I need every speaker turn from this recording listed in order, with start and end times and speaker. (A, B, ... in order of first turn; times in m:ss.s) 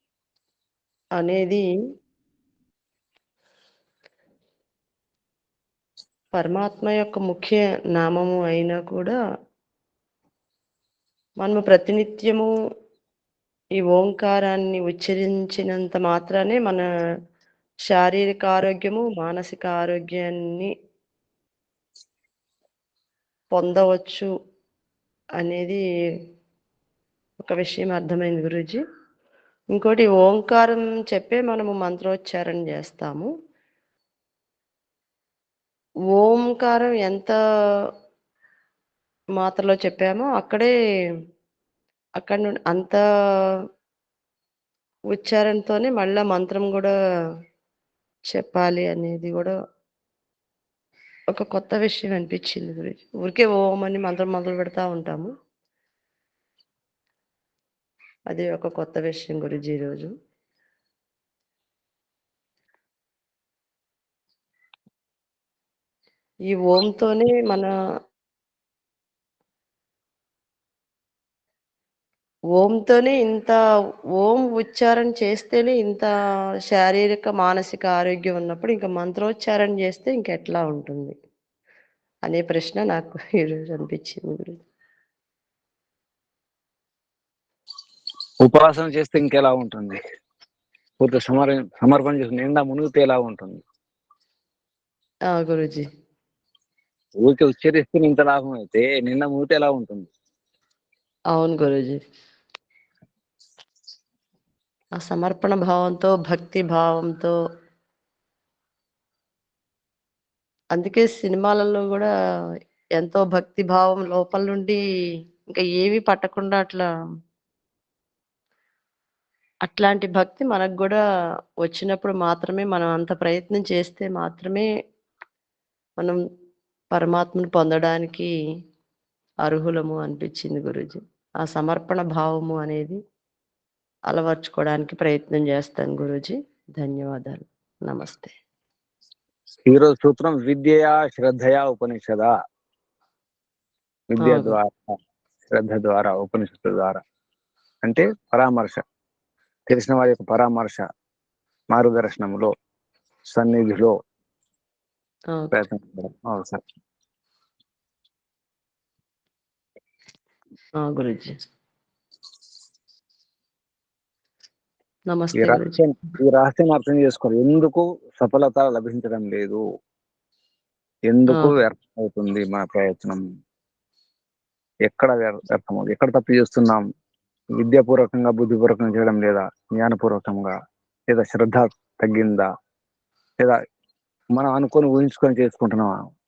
0:01.2-0:01.6 A
0:06.3-0:09.2 A
0:11.4-0:12.5 A
0:13.8-0:16.8 A
0:17.9-0:20.7 A
0:23.5-0:24.3 A
0:25.4-0:25.8 A
0:27.4-0:28.8 A
0:29.7-0:33.3 A
0:36.2-0:37.4 A
0:39.4-0:40.7 A
0:42.2-0:43.0 A
0:45.1-0:46.9 A
0:48.3-0:49.5 A
0:51.3-0:55.3 A
0:58.3-1:00.1 A
1:06.5-1:07.7 A
1:12.6-1:13.6 A
1:14.2-1:16.1 A
1:16.7-1:21.2 A
1:22.3-1:24.6 A
1:28.4-1:30.0 B
1:31.0-1:33.6 B
1:35.3-1:35.9 A
1:37.2-1:40.1 B
1:41.3-1:42.0 A
1:45.0-1:47.3 A
1:50.7-1:52.1 A
1:53.0-1:54.8 A
1:55.5-1:56.9 A
1:59.6-2:01.0 A
2:01.6-2:04.7 A
2:06.9-2:08.3 A
2:09.4-2:13.0 A
2:14.1-2:18.3 A
2:19.7-2:22.3 B
2:24.1-2:24.9 B
2:24.2-2:24.5 A
2:25.5-2:27.0 B
2:27.8-2:28.8 B
2:29.7-2:30.8 B
2:31.7-2:32.5 B
2:33.3-2:33.9 B
2:35.5-2:36.6 B
2:40.8-2:41.3 A
2:45.1-2:45.8 A
2:45.4-2:49.6 B
2:51.1-2:53.2 B
2:54.9-2:56.8 B
2:57.6-3:00.5 B
3:01.1-3:02.5 B
3:04.4-3:05.9 B